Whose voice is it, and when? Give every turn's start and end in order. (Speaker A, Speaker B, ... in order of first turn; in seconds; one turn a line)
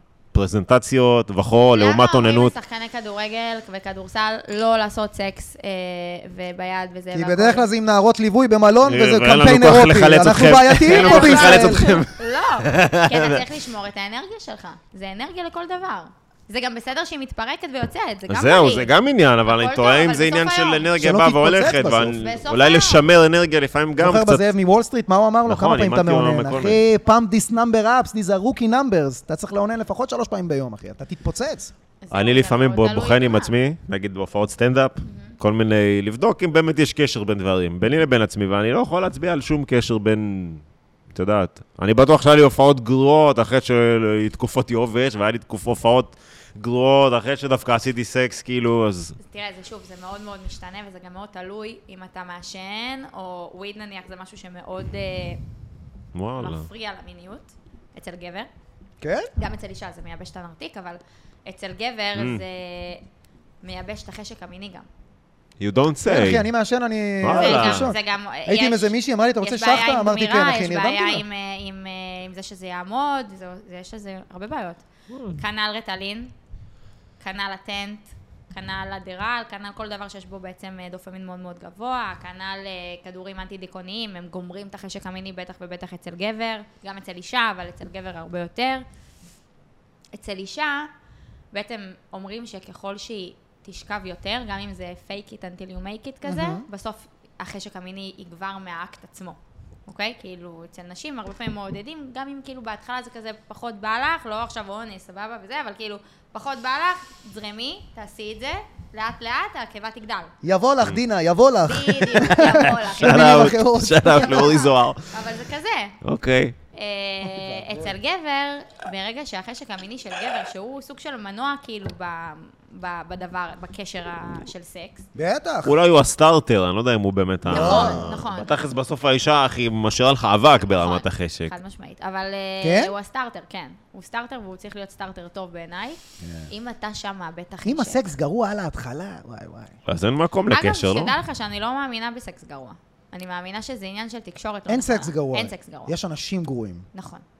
Speaker A: 0.3-2.5
Speaker B: 1.7-7.7
Speaker C: 7.1-11.9
Speaker A: 8.8-13.4
Speaker B: 10.9-18.9
Speaker A: 18.3-24.4
Speaker B: 19.4-20.9
Speaker C: 21.0-22.2
Speaker B: 22.2-23.0
Speaker C: 24.0-31.7
Speaker A: 25.5-26.8
Speaker B: 32.0-33.5
Speaker A: 32.1-40.6
Speaker B: 35.0-35.3
Speaker A: 41.1-49.2
Speaker B: 49.2-55.4
Speaker A: 56.1-56.7
Speaker B: 56.4-58.5
Speaker C: 59.0-59.3
Speaker B: 59.4-63.0
Speaker A: 62.1-62.4
Speaker B: 63.6-64.9
Speaker A: 65.6-66.4
Speaker C: 66.0-71.2
Speaker A: 67.2-67.9
Speaker B: 67.4-76.3
Speaker A: 75.1-75.4
Speaker B: 77.2-88.8
Speaker B: 90.1-90.9
Speaker B: 91.5-110.3
Speaker C: 96.2-96.6
Speaker C: 110.4-114.6
Speaker B: 111.7-113.5
Speaker A: 113.0-115.1
Speaker B: 114.0-116.0
Speaker A: 116.0-116.5
Speaker B: 116.7-125.1
Speaker C: 117.2-117.9
Speaker C: 125.1-125.7
Speaker A: 125.6-131.5
Speaker C: 127.4-128.1
Speaker B: 127.5-128.6
Speaker B: 130.7-138.1
Speaker C: 132.6-132.9
Speaker C: 136.2-136.5
Speaker C: 137.6-139.8
Speaker A: 139.8-141.1
Speaker B: 140.5-145.9
Speaker C: 144.7-146.8
Speaker B: 146.9-147.2